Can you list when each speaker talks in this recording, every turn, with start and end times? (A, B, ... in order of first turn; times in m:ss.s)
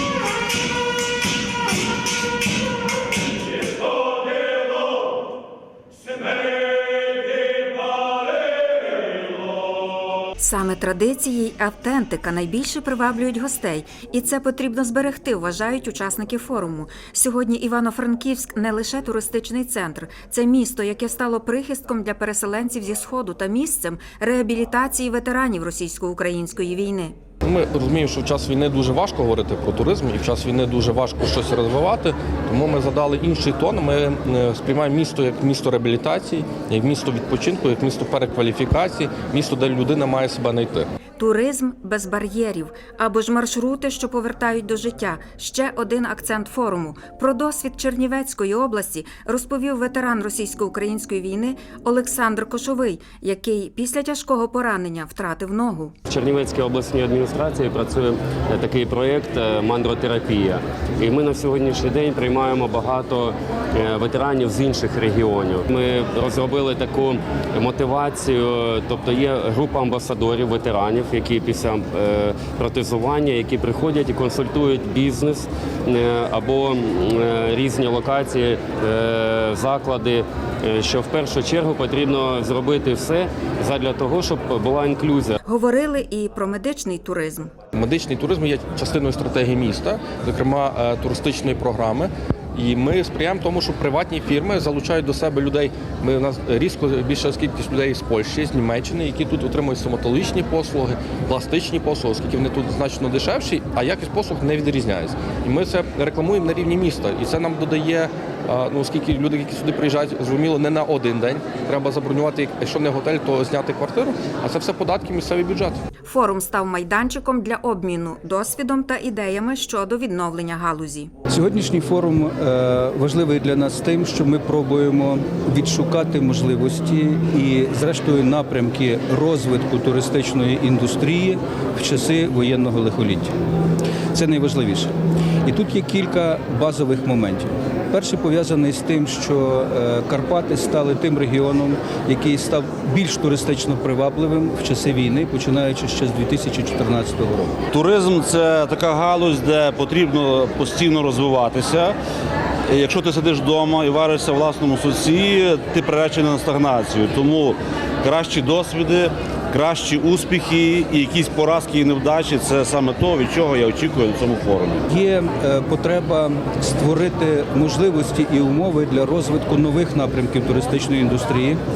0:10.4-0:27.2 A
0:27.4-0:40.9 B
0:41.2-0:55.9 A
0:56.1-1:25.3 C
1:25.4-1:27.5 A
1:27.7-1:55.8 B
1:56.0-2:01.1 A
2:01.3-2:13.3 D
2:14.1-2:14.9 D
2:15.4-2:27.6 D
2:27.7-2:31.9 E
2:32.7-2:44.8 E
2:44.9-2:51.6 D